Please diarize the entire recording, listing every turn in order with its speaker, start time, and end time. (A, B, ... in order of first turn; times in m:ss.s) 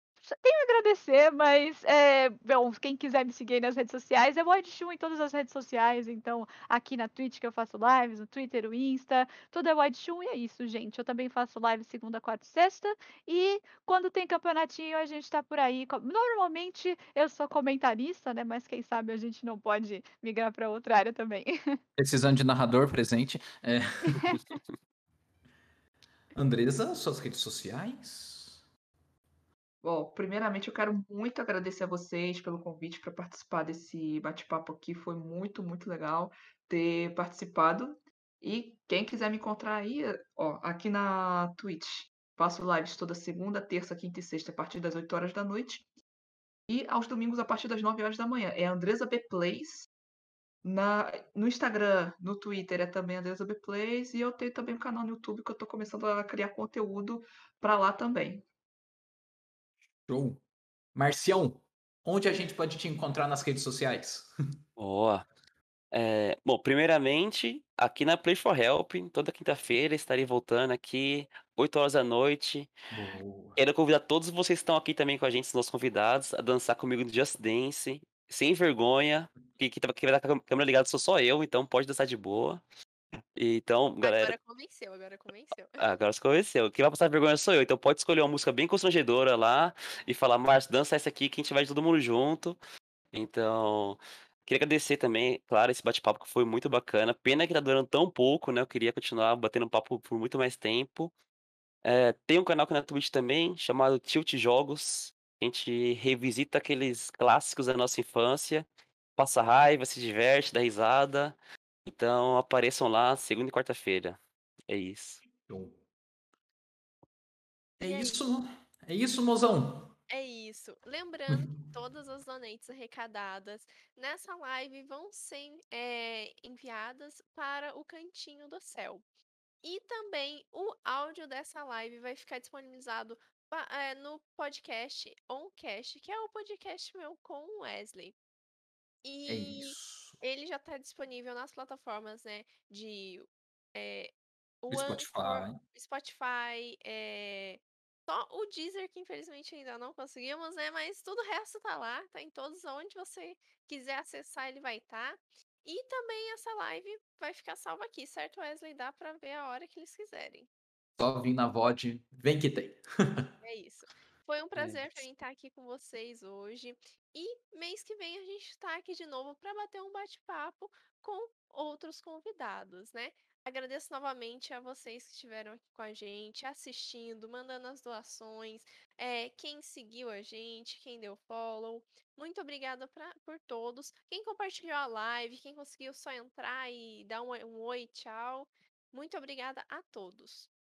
0:00.2-0:21.8 A
0:22.0-0:24.4 B
0:26.4-0:28.6 B
0:29.8-0:45.9 C
0:46.7-0:49.9 C
0:50.6-0:58.4 C
1:00.1-1:00.4 B
1:01.0-1:04.3 B
1:04.8-1:05.2 D
1:05.9-1:12.7 D
1:12.9-1:13.6 B
1:13.6-1:22.6 D
1:23.4-1:24.4 D
1:24.0-1:25.8 E
1:25.8-1:32.6 D
1:33.1-1:41.1 D
1:41.8-1:55.2 D
1:55.4-1:55.8 B
1:57.8-1:59.9 B
1:57.8-1:58.2 E
2:00.1-2:09.1 E
2:09.6-2:18.2 E
2:19.0-2:40.5 E
2:19.3-2:20.2 B
2:24.7-2:25.6 B
2:41.0-2:43.3 B
2:43.4-3:10.5 E
2:44.6-2:45.0 B